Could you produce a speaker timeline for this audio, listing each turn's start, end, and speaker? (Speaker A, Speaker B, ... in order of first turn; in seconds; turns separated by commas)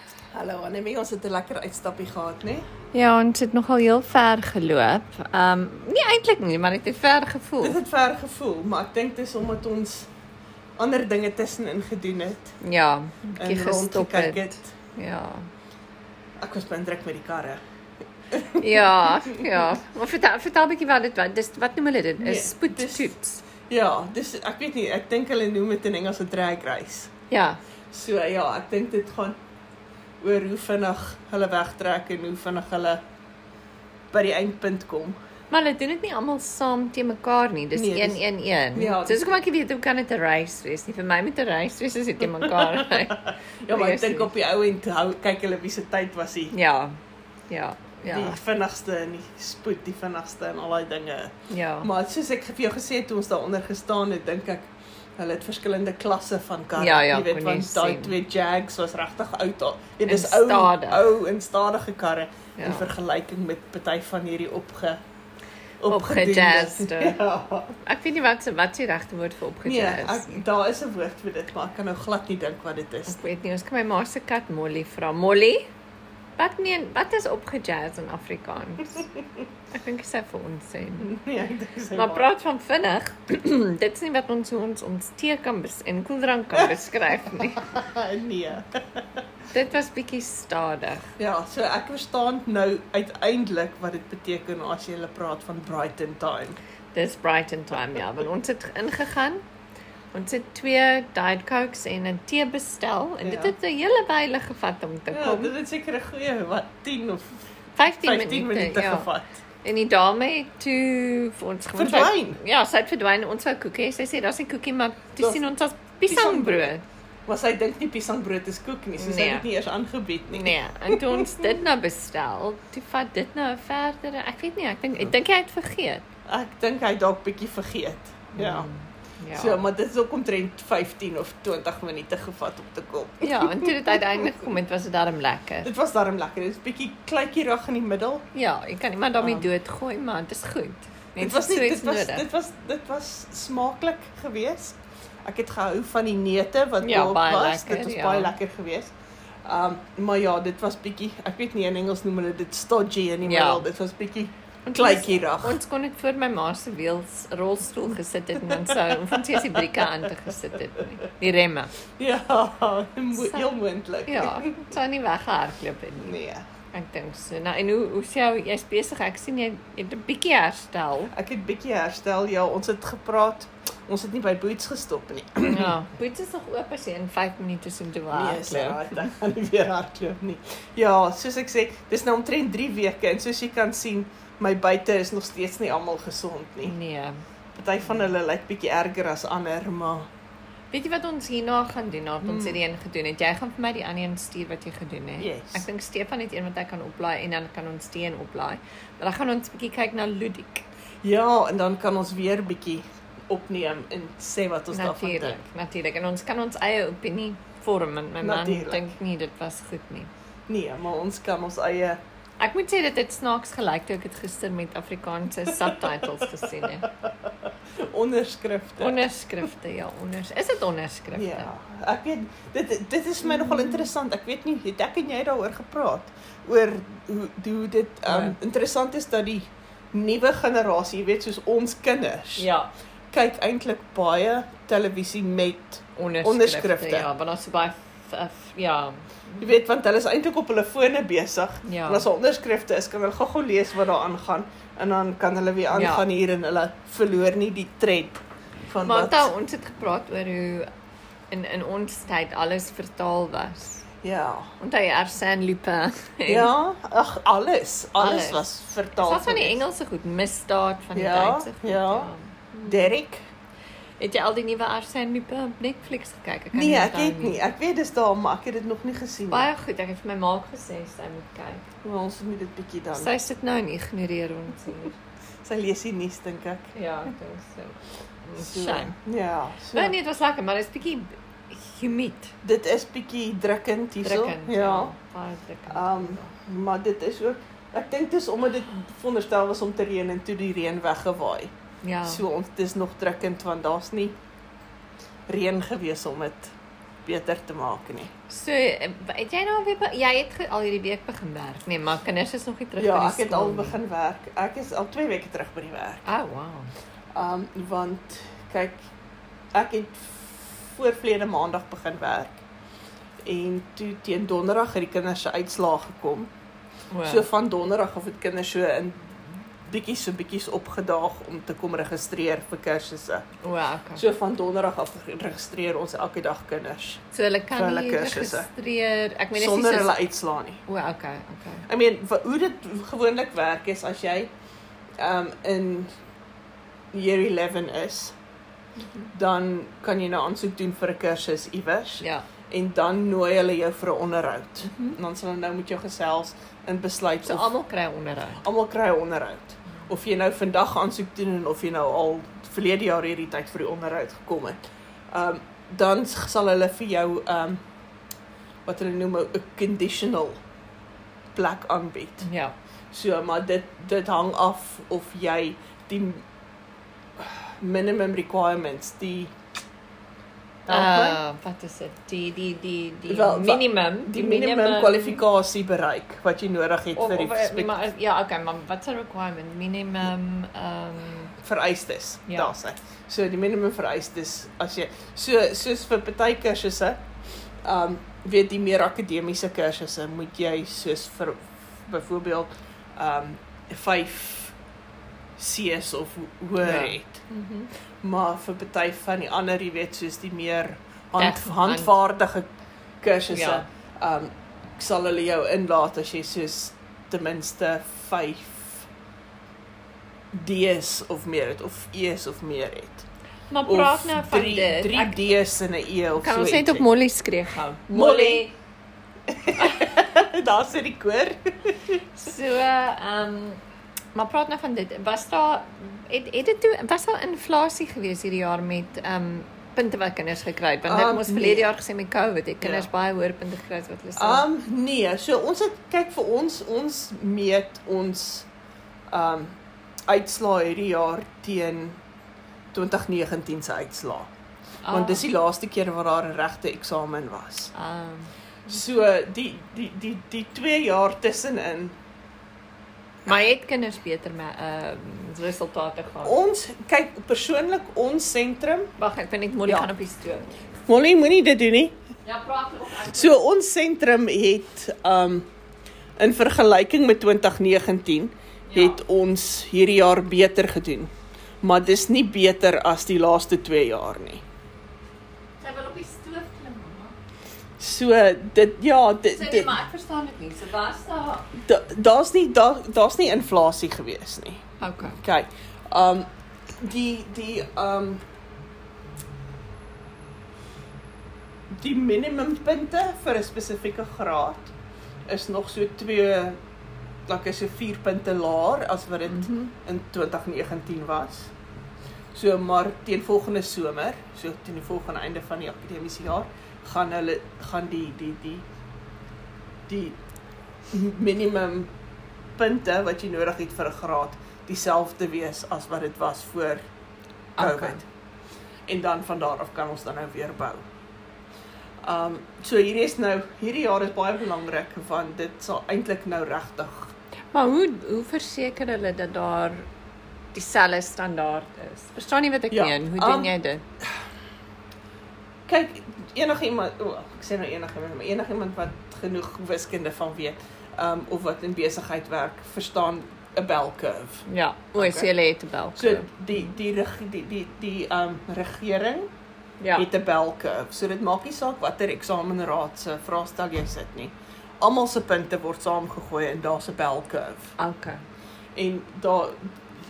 Speaker A: 0.3-2.6, Speaker B: 2.9-7.8, Speaker A: 7.6-10.1, Speaker A: 10.8-12.6, Speaker B: 12.6-15.5, Speaker A: 13.4-14.7, Speaker A: 16.4-17.6, Speaker A: 18.3-19.5, Speaker B: 18.6-23.4, Speaker A: 22.2-23.1, Speaker A: 23.7-27.1, Speaker B: 27.3-27.6, Speaker A: 27.9-29.4, Speaker A: 30.2-33.0, Speaker A: 34.1-35.2, Speaker B: 35.5-44.3, Speaker A: 37.7-38.2, Speaker A: 38.7-39.4, Speaker A: 42.3-46.5, Speaker B: 46.5-47.0, Speaker B: 47.5-48.4, Speaker A: 48.1-51.3, Speaker B: 51.5-51.9, Speaker A: 51.8-65.0, Speaker B: 56.7-58.1, Speaker B: 60.0-61.1, Speaker B: 62.6-62.9, Speaker A: 65.8-67.8, Speaker B: 65.9-67.2, Speaker B: 67.8-70.4, Speaker A: 69.6-73.2, Speaker B: 73.1-75.6, Speaker B: 76.4-79.0, Speaker B: 79.7-81.1, Speaker A: 81.0-82.3, Speaker B: 82.0-87.7, Speaker A: 87.3-89.0, Speaker B: 89.5-91.1, Speaker A: 91.2-96.6, Speaker B: 96.9-99.4, Speaker B: 100.1-105.5, Speaker A: 103.2-103.5, Speaker A: 105.1-107.2, Speaker B: 107.8-109.1, Speaker A: 107.9-109.4, Speaker B: 109.6-116.8, Speaker A: 111.8-112.4, Speaker A: 116.0-116.7, Speaker A: 117.3-121.5, Speaker B: 119.0-119.5, Speaker B: 120.3-126.0, Speaker A: 126.3-128.7, Speaker B: 128.3-129.6, Speaker A: 129.3-134.0, Speaker B: 133.2-135.7, Speaker A: 135.6-138.2, Speaker B: 138.3-142.2, Speaker A: 139.2-139.5, Speaker A: 141.2-148.9, Speaker B: 146.8-148.3, Speaker A: 149.4-155.6, Speaker B: 153.2-153.7, Speaker B: 154.7-161.7, Speaker A: 158.5-159.8, Speaker A: 162.0-164.7, Speaker B: 163.1-163.4, Speaker B: 164.1-166.2, Speaker A: 166.0-166.4, Speaker B: 166.7-171.1, Speaker A: 171.1-175.8, Speaker B: 175.4-178.9, Speaker A: 178.1-186.7, Speaker B: 186.6-187.2, Speaker A: 187.5-190.1, Speaker B: 190.7-200.6, Speaker A: 192.2-192.6, Speaker A: 195.2-195.6, Speaker A: 201.0-205.4, Speaker B: 204.7-210.1, Speaker A: 208.2-208.9, Speaker A: 210.5-212.0, Speaker B: 212.4-216.9, Speaker A: 215.7-216.9, Speaker A: 217.8-219.1, Speaker B: 218.8-221.5, Speaker A: 221.1-232.5, Speaker B: 223.2-223.9, Speaker B: 228.1-228.3, Speaker B: 232.4-232.7, Speaker A: 233.1-237.1, Speaker B: 235.9-239.5, Speaker A: 239.4-249.3, Speaker B: 241.6-242.1, Speaker B: 245.7-246.1, Speaker B: 248.8-250.7, Speaker B: 251.3-253.8, Speaker A: 254.0-254.5, Speaker B: 254.6-256.5, Speaker A: 256.3-259.6, Speaker B: 258.0-262.9, Speaker A: 260.9-262.1, Speaker A: 262.6-263.2, Speaker B: 264.0-267.4, Speaker A: 266.5-269.5, Speaker B: 269.3-271.7, Speaker A: 271.8-273.1, Speaker B: 272.9-274.9, Speaker A: 275.4-276.7, Speaker B: 276.7-278.9, Speaker A: 278.4-279.9, Speaker B: 279.7-282.3, Speaker A: 282.4-284.9, Speaker B: 284.0-286.3, Speaker A: 285.7-291.5, Speaker B: 291.8-292.2, Speaker A: 292.0-294.1, Speaker A: 295.3-296.5, Speaker A: 297.0-298.1, Speaker B: 298.3-303.8, Speaker A: 302.8-306.0, Speaker B: 306.1-306.7, Speaker A: 307.1-308.8, Speaker A: 309.5-312.4, Speaker A: 313.2-316.3, Speaker B: 316.9-317.3, Speaker A: 317.0-319.1, Speaker A: 319.7-323.2, Speaker B: 323.4-324.0, Speaker A: 323.9-328.5, Speaker B: 327.1-330.0, Speaker A: 329.3-330.6, Speaker B: 330.7-331.6, Speaker A: 331.7-334.3, Speaker A: 335.0-335.9, Speaker A: 336.9-338.1, Speaker A: 339.1-347.5, Speaker B: 342.0-342.2, Speaker B: 344.6-345.0, Speaker B: 347.2-348.4, Speaker A: 348.4-354.6, Speaker A: 355.1-357.6, Speaker A: 358.6-360.4, Speaker A: 361.3-362.3, Speaker B: 362.2-362.5, Speaker A: 362.9-366.2, Speaker A: 367.2-369.3, Speaker A: 370.6-371.2, Speaker B: 370.7-375.2, Speaker A: 373.1-377.7, Speaker B: 376.9-381.3, Speaker A: 381.4-387.0, Speaker A: 387.6-394.5, Speaker A: 395.4-397.2, Speaker B: 396.6-397.7, Speaker A: 398.0-402.5, Speaker B: 401.2-401.9, Speaker A: 403.0-408.9, Speaker B: 403.3-403.6, Speaker A: 410.3-413.1, Speaker B: 413.5-415.3, Speaker A: 413.6-416.9, Speaker B: 416.2-418.5, Speaker A: 417.9-418.4, Speaker A: 419.3-421.8, Speaker B: 419.6-419.9, Speaker B: 422.2-423.6, Speaker B: 424.1-434.4, Speaker A: 430.8-431.7, Speaker A: 432.6-432.9, Speaker A: 434.2-438.5, Speaker A: 439.1-439.5, Speaker A: 440.1-442.0, Speaker A: 442.7-444.3, Speaker B: 444.8-445.2, Speaker A: 444.9-447.7, Speaker B: 447.7-448.3, Speaker A: 448.7-451.9, Speaker B: 453.2-456.4, Speaker A: 456.2-458.9, Speaker B: 459.0-460.5, Speaker A: 460.9-461.9, Speaker B: 462.2-463.4, Speaker A: 463.0-465.5, Speaker A: 466.2-471.1, Speaker B: 468.7-469.0, Speaker A: 471.6-474.4, Speaker B: 475.6-477.1, Speaker A: 477.8-479.7, Speaker B: 479.3-481.5, Speaker A: 481.6-484.6, Speaker B: 484.8-485.2, Speaker A: 485.2-486.3, Speaker A: 486.8-488.2, Speaker A: 491.7-494.7, Speaker A: 495.3-496.6, Speaker A: 497.3-501.5, Speaker B: 499.2-499.7, Speaker A: 502.3-508.6, Speaker A: 509.9-510.2, Speaker A: 510.9-511.9, Speaker A: 512.5-516.8, Speaker B: 517.6-518.0, Speaker A: 517.6-518.0, Speaker A: 518.9-520.8, Speaker A: 522.0-527.1, Speaker B: 527.5-529.9, Speaker B: 530.5-533.8, Speaker A: 532.7-533.5, Speaker A: 535.7-545.3, Speaker B: 544.5-546.3, Speaker A: 546.0-549.3, Speaker B: 549.8-550.1, Speaker A: 550.0-557.7, Speaker B: 557.8-558.2, Speaker A: 558.7-559.7